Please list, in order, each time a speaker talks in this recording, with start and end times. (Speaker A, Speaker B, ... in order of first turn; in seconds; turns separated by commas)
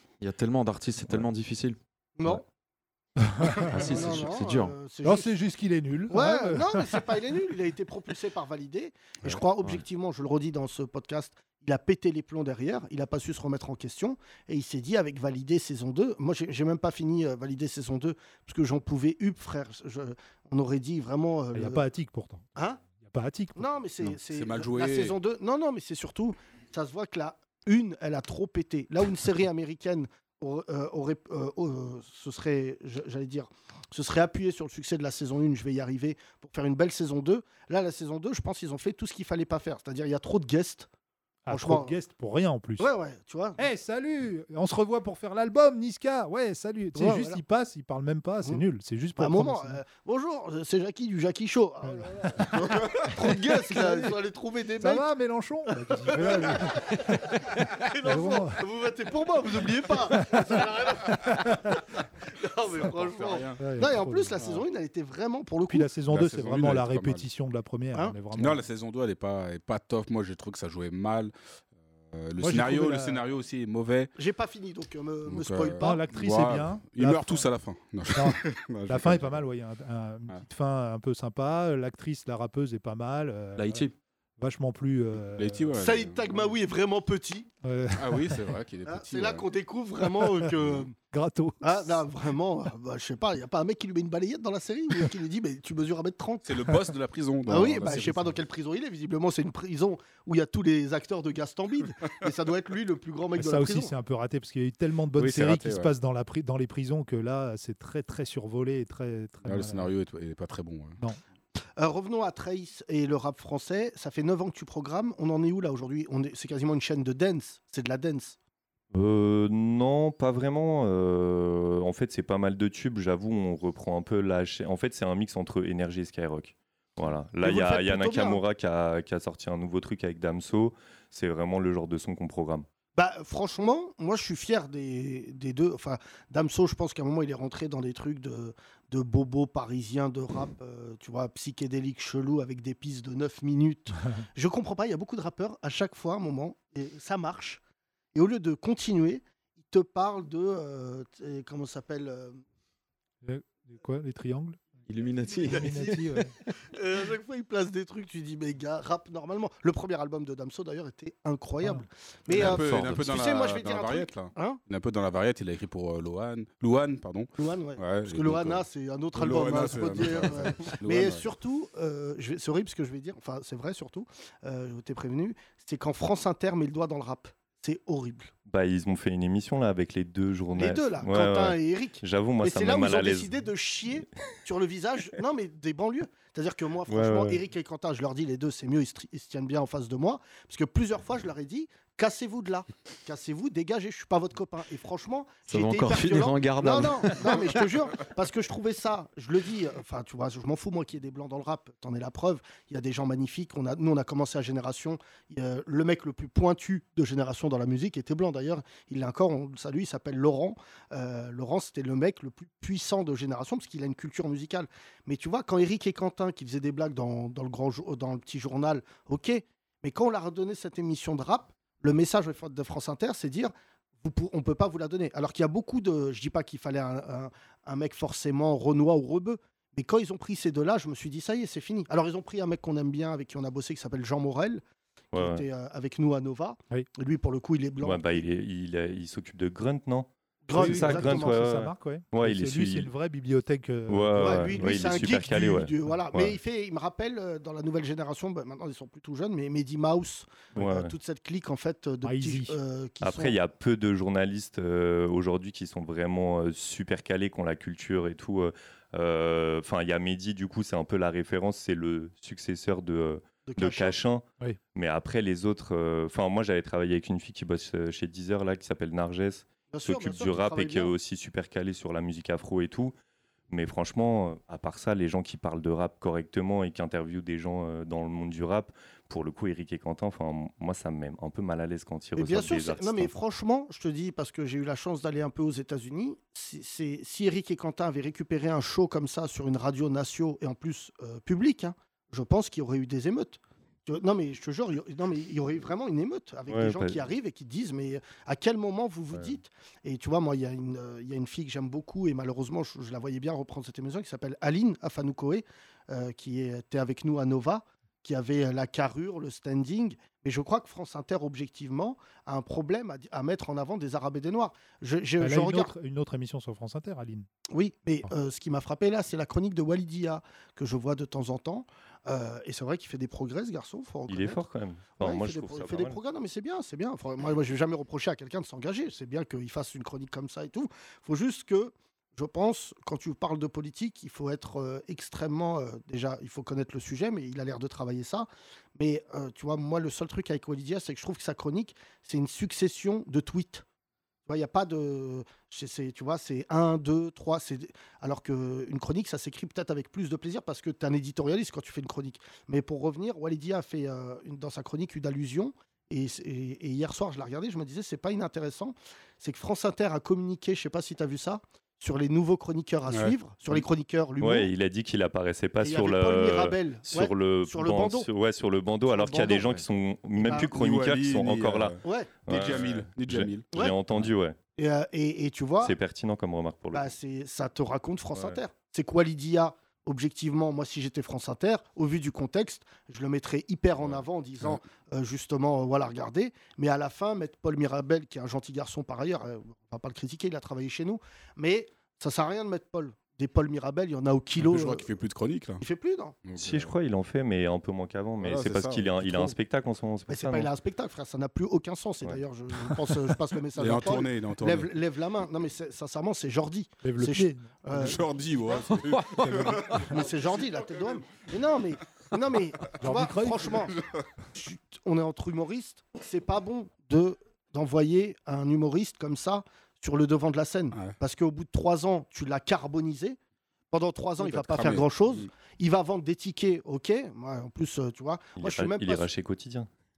Speaker A: 0.2-2.4, Speaker B: 2.2-2.4, Speaker C: 3.2-3.7, Speaker A: 3.7-4.8, Speaker B: 3.8-5.3, Speaker C: 5.0-6.9, Speaker B: 6.1-21.9, Speaker C: 21.5-24.1, Speaker B: 23.6-40.9, Speaker D: 24.3-25.2, Speaker C: 41.5-42.9, Speaker B: 41.5-41.9, Speaker B: 42.8-43.6, Speaker C: 43.6-49.8, Speaker B: 47.0-47.4, Speaker B: 49.2-55.1, Speaker C: 51.9-52.5, Speaker C: 53.0-54.1, Speaker C: 54.8-58.6, Speaker B: 55.7-61.5, Speaker C: 60.1-61.5, Speaker B: 62.3-65.9, Speaker D: 62.7-63.7, Speaker C: 63.6-64.5, Speaker C: 65.7-68.6, Speaker D: 66.1-67.2, Speaker D: 68.3-71.3, Speaker D: 72.0-74.1, Speaker C: 72.4-73.2, Speaker B: 74.2-76.0, Speaker D: 75.3-79.4, Speaker C: 75.8-77.5, Speaker C: 78.1-83.8, Speaker A: 83.6-83.9, Speaker C: 84.4-85.7, Speaker D: 85.4-86.5, Speaker B: 85.8-87.5, Speaker C: 87.6-88.4, Speaker D: 87.9-89.5, Speaker B: 88.9-91.0, Speaker D: 90.6-90.9, Speaker C: 91.1-92.0, Speaker B: 91.6-96.5, Speaker D: 96.4-98.4, Speaker B: 97.5-103.9, Speaker C: 103.4-109.9, Speaker D: 105.1-105.9, Speaker D: 109.4-111.0, Speaker B: 111.8-118.4, Speaker E: 118.9-132.7, Speaker B: 127.4-128.4, Speaker B: 132.9-147.6, Speaker B: 148.1-152.4, Speaker C: 153.2-154.6, Speaker A: 154.9-156.3, Speaker C: 155.4-156.3, Speaker B: 155.4-156.0, Speaker B: 156.6-164.6, Speaker D: 162.3-171.2, Speaker A: 162.3-163.0, Speaker B: 167.4-178.3, Speaker E: 178.5-183.4, Speaker B: 180.6-223.5, Speaker E: 186.9-187.4, Speaker A: 195.5-197.6, Speaker B: 224.0-234.6, Speaker E: 235.1-235.4, Speaker B: 235.1-238.2, Speaker E: 237.8-242.9, Speaker B: 240.4-241.4, Speaker C: 240.5-245.2, Speaker E: 243.9-246.4, Speaker B: 244.2-253.4, Speaker E: 250.6-250.9, Speaker C: 252.0-252.6, Speaker E: 253.0-272.9, Speaker B: 263.5-264.0, Speaker B: 269.7-270.9, Speaker E: 273.5-283.1, Speaker B: 282.1-315.7, Speaker E: 296.5-297.0, Speaker C: 315.2-317.3, Speaker B: 317.5-324.4, Speaker E: 324.1-326.0, Speaker B: 325.0-343.6, Speaker B: 344.3-364.5, Speaker D: 362.9-363.1, Speaker E: 364.2-374.4, Speaker B: 365.6-368.1, Speaker B: 368.9-369.5, Speaker B: 370.2-370.5, Speaker D: 370.3-373.5, Speaker B: 371.8-372.1, Speaker B: 374.6-375.7, Speaker E: 375.6-376.9, Speaker B: 376.7-395.0, Speaker D: 394.4-395.6, Speaker B: 395.6-396.1, Speaker D: 396.2-396.7, Speaker E: 396.4-400.5, Speaker D: 398.2-399.4, Speaker B: 400.1-408.8, Speaker D: 403.6-404.8, Speaker C: 406.8-408.0, Speaker D: 407.7-411.0, Speaker C: 409.0-409.9, Speaker B: 409.8-413.8, Speaker C: 412.8-413.6, Speaker D: 413.8-414.0, Speaker B: 414.3-423.2, Speaker B: 423.7-429.1, Speaker D: 424.2-425.3, Speaker E: 428.4-429.7